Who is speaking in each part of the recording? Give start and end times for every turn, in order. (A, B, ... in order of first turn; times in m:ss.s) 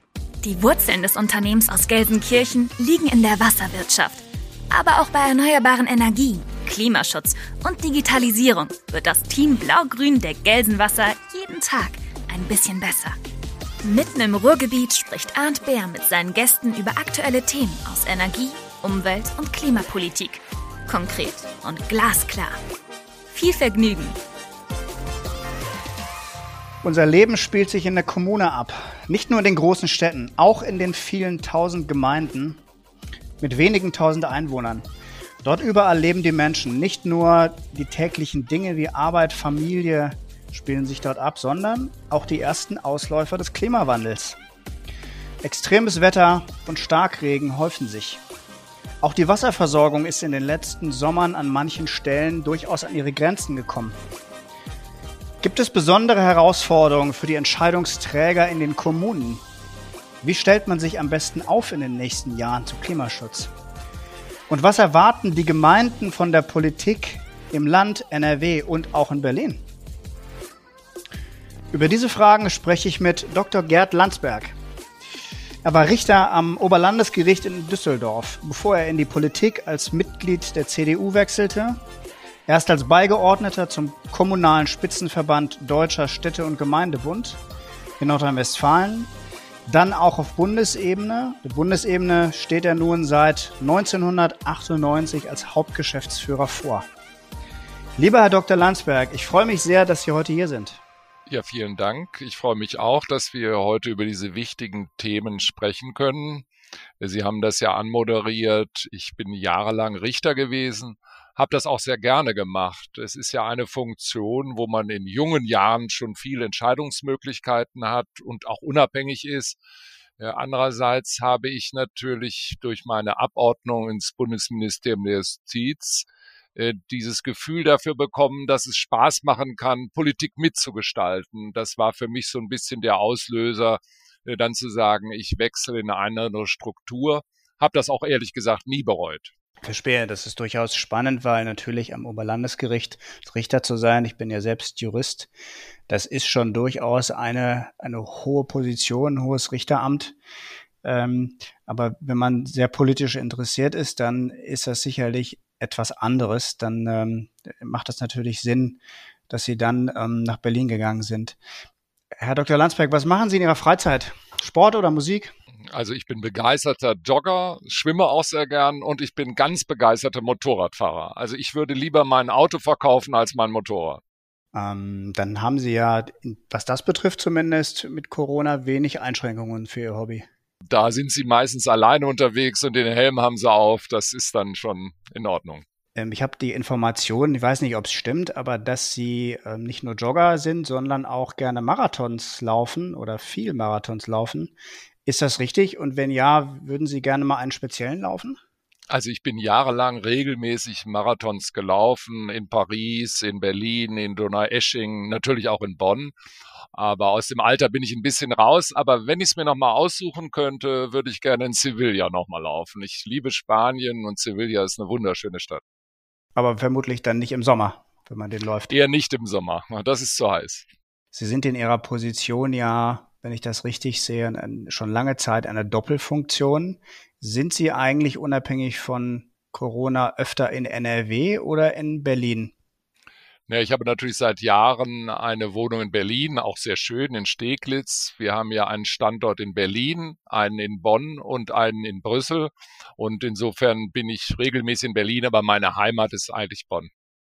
0:00.4-0:13.2 A
0:13.8-0:22.6 A
0:23.3-0:24.2 A
0:26.8-0:32.6 B
0:33.4-0:34.8 B
0:35.4-0:44.4 B
0:45.4-0:48.2 B
0:49.0-0:54.0 B
0:55.4-0:59.4 B
1:00.2-1:03.5 B
1:04.5-1:09.6 B
1:11.7-1:14.6 B
1:15.6-1:21.8 B
1:22.5-1:27.4 B
1:28.0-1:29.1 B
1:29.7-1:36.9 B
1:38.0-1:40.8 B
1:41.3-1:46.4 C
1:47.0-1:59.6 C
2:00.2-2:19.3 C
2:19.6-2:25.3 B
2:25.9-2:30.2 B
2:30.8-2:41.4 B
2:42.1-2:45.3 B
2:45.7-2:54.0 C
2:54.5-3:00.3 B
3:00.7-3:05.6 C
3:06.0-3:14.5 B
3:15.0-3:18.4 B
3:18.9-3:26.1 C
3:26.7-3:35.6 C
3:36.4-3:38.7 B
3:38.7-3:40.6 C
3:41.1-3:52.5 B
3:53.5-4:06.9 C